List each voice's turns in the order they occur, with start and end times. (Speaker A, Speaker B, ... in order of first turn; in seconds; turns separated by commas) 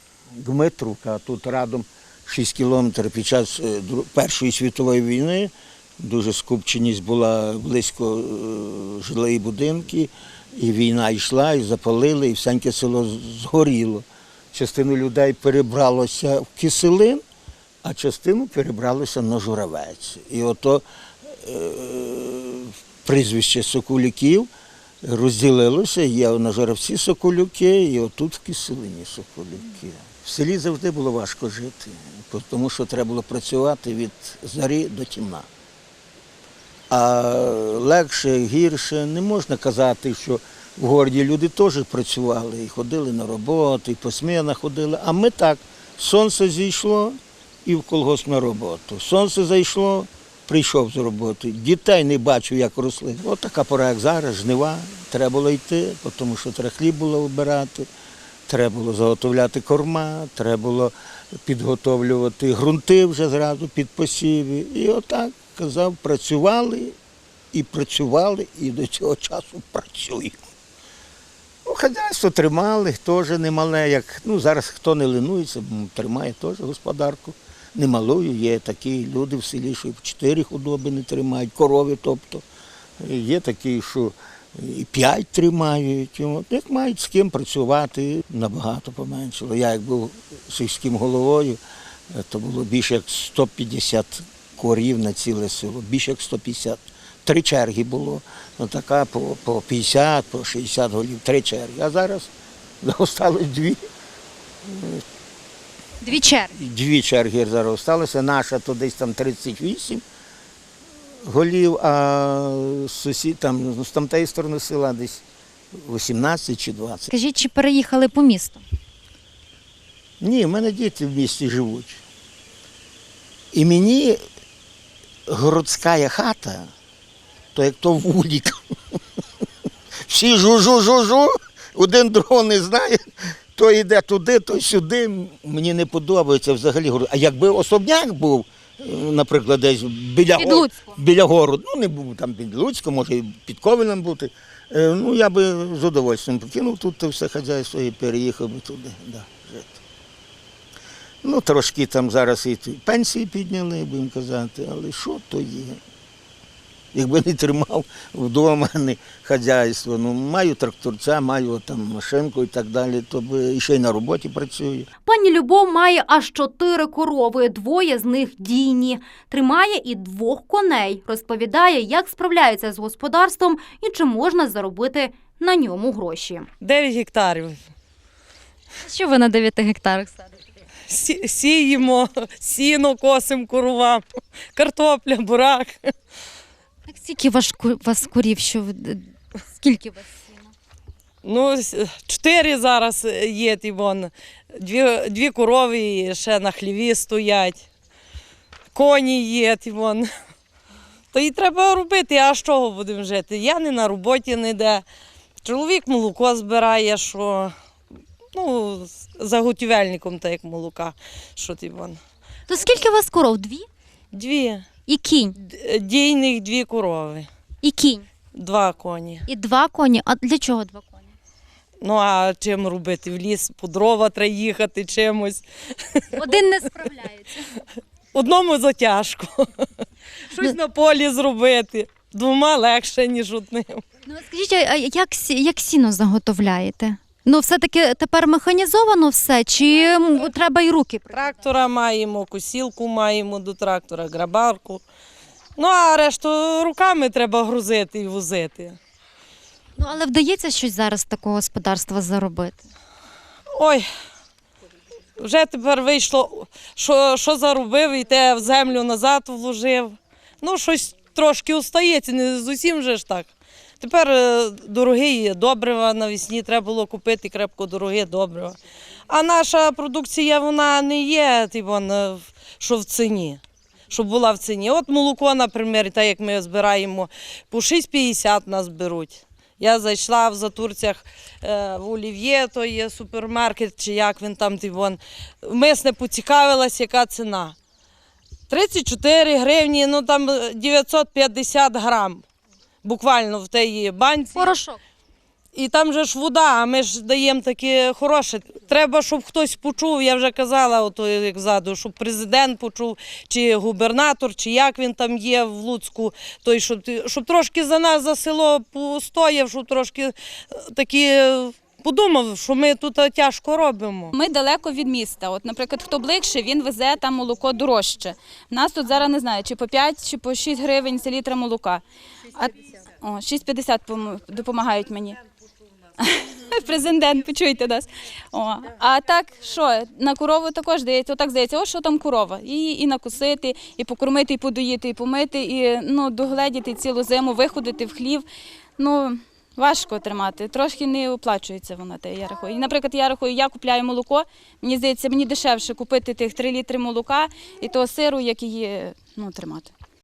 Speaker A: 0.4-17.2, Speaker A: 17.8-24.5, Speaker A: 25.0-35.5, Speaker A: 36.9-57.9, Speaker A: 58.5-60.9, Speaker A: 61.4-66.9, Speaker A: 67.5-70.4, Speaker A: 71.6-82.4, Speaker A: 83.0-91.6, Speaker A: 92.1-102.3, Speaker A: 102.8-103.8, Speaker A: 104.6-105.0, Speaker B: 106.0-106.5, Speaker A: 106.5-110.0, Speaker A: 111.2-115.2, Speaker A: 115.7-117.1, Speaker B: 117.1-118.6, Speaker A: 120.2-122.0, Speaker A: 123.5-124.2, Speaker A: 125.3-126.7, Speaker A: 127.5-128.6, Speaker A: 130.1-149.8, Speaker B: 140.4-140.9, Speaker A: 151.2-155.8, Speaker A: 156.9-164.9, Speaker C: 165.0-176.5, Speaker D: 176.6-177.7, Speaker B: 178.8-180.4, Speaker D: 180.9-184.0, Speaker D: 184.5-185.8, Speaker B: 186.9-190.3, Speaker D: 191.2-197.7, Speaker D: 198.7-200.1, Speaker D: 201.1-204.8, Speaker D: 205.4-207.5, Speaker D: 208.3-212.0, Speaker B: 212.5-213.7, Speaker D: 214.1-214.7, Speaker B: 214.9-215.3, Speaker D: 215.4-217.3, Speaker B: 217.6-218.1, Speaker D: 218.3-219.2, Speaker B: 219.3-221.1, Speaker D: 221.8-225.4, Speaker D: 225.9-226.3, Speaker B: 226.1-227.3, Speaker D: 228.1-229.6, Speaker D: 230.3-233.8, Speaker B: 234.1-241.2, Speaker D: 241.1-244.8, Speaker D: 245.6-248.8, Speaker B: 249.8-252.6, Speaker D: 253.6-253.8, Speaker D: 255.2-263.3, Speaker D: 263.8-268.6, Speaker D: 269.1-287.6, Speaker D: 288.5-292.2, Speaker D: 292.8-294.6, Speaker B: 294.3-294.8, Speaker D: 295.5-314.1, Speaker E: 314.1-321.8, Speaker E: 322.3-325.2, Speaker E: 326.0-338.2, Speaker E: 338.8-349.7